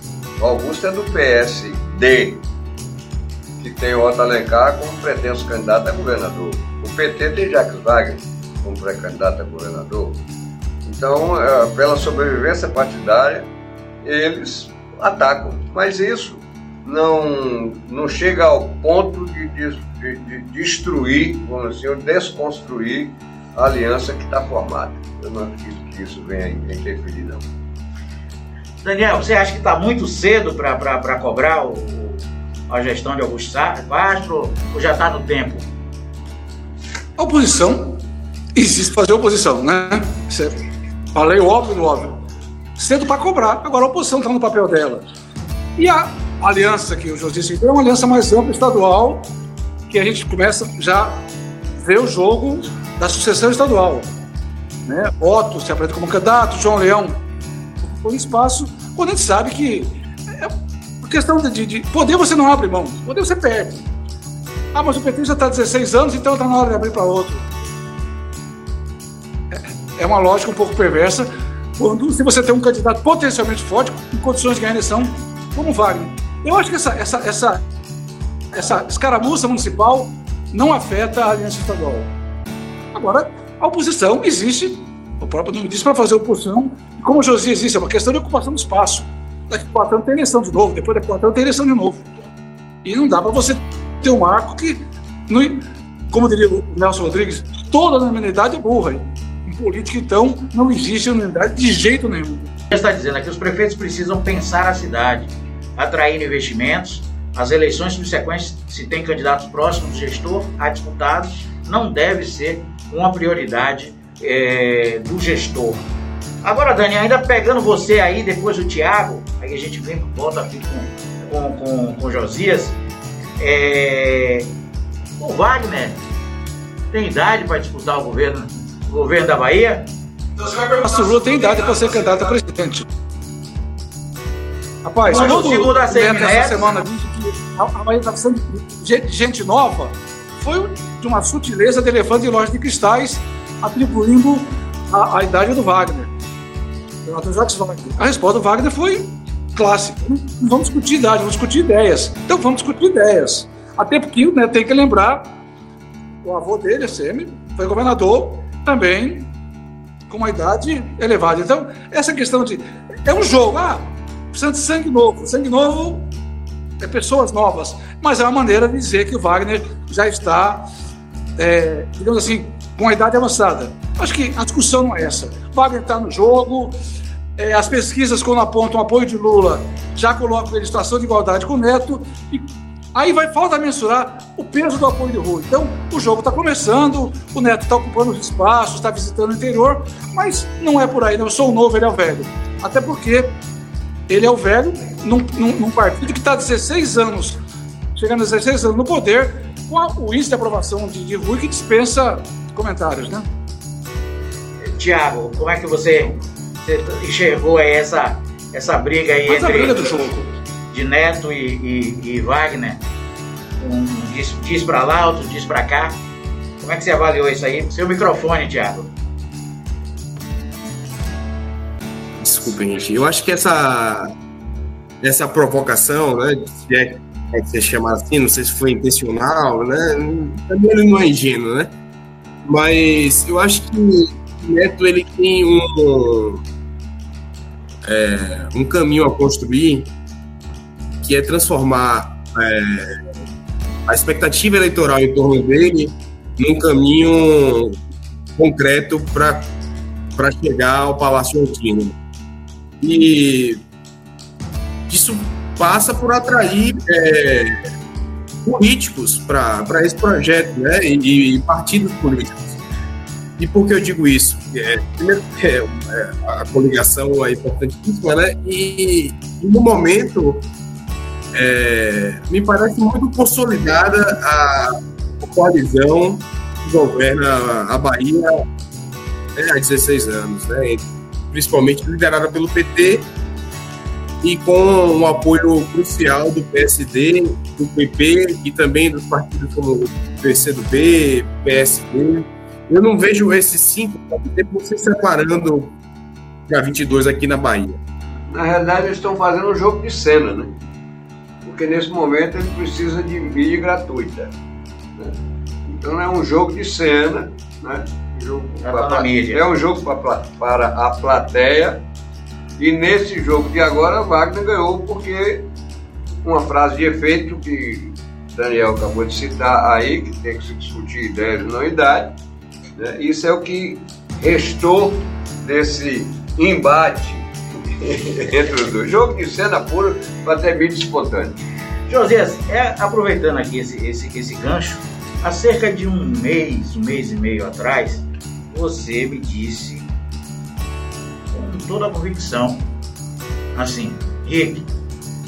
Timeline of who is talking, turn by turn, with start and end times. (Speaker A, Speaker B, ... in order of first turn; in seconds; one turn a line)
Speaker A: 0.4-2.4
Speaker A: 3.6-10.2
Speaker A: 10.8-13.5
Speaker A: 14.0-27.5
Speaker B: 28.8-35.7
Speaker C: 37.2-38.0
Speaker C: 38.6-40.5
Speaker C: 41.1-42.2
Speaker C: 42.8-45.0
Speaker C: 45.8-49.3
Speaker C: 49.9-51.3
Speaker C: 51.8-54.1
Speaker C: 54.9-57.1
Speaker C: 57.9-60.5
Speaker C: 61.0-63.9
Speaker C: 64.7-67.5
Speaker C: 69.5-77.6
Speaker C: 78.5-82.1
Speaker C: 83.0-92.0
Speaker C: 92.8-102.5
Speaker B: 102.7-115.8
Speaker B: 116.4-122.8
Speaker B: 123.4-124.5
Speaker B: 125.2-126.0
Speaker B: 126.9-129.9
Speaker C: 130.4-132.8
Speaker C: 134.8-146.1
Speaker B: 135.1-136.8
Speaker C: 147.1-155.4
Speaker C: 156.2-159.3
Speaker C: 160.1-166.1
Speaker C: 166.8-170.7
Speaker C: 171.4-176.8
Speaker C: 177.4-193.3
Speaker C: 194.1-197.4
Speaker C: 197.9-203.3
Speaker B: 204.6-209.9
Speaker C: 209.3-210.3
Speaker B: 210.7-212.8
Speaker B: 213.6-216.0
Speaker B: 216.6-218.9
Speaker D: 222.2-224.1
Speaker D: 225.0-231.7
Speaker D: 232.4-236.4
Speaker D: 237.8-239.9
Speaker D: 241.0-242.9
Speaker D: 243.9-247.8
Speaker D: 248.4-249.5
Speaker D: 250.2-251.9
Speaker D: 252.8-253.6
Speaker D: 254.9-257.6
Speaker D: 258.4-262.6
Speaker D: 263.4-270.5
Speaker D: 271.3-278.4
Speaker D: 279.4-283.1
Speaker D: 284.2-295.8
Speaker D: 296.5-297.8
Speaker A: 298.3-300.5
Speaker A: 301.4-304.3
Speaker A: 305.0-311.8
Speaker B: 308.6-309.4
Speaker A: 312.6-315.5
Speaker A: 316.2-322.1
Speaker A: 322.8-331.4
Speaker B: 331.9-339.9
Speaker B: 341.3-342.7
Speaker B: 343.5-344.7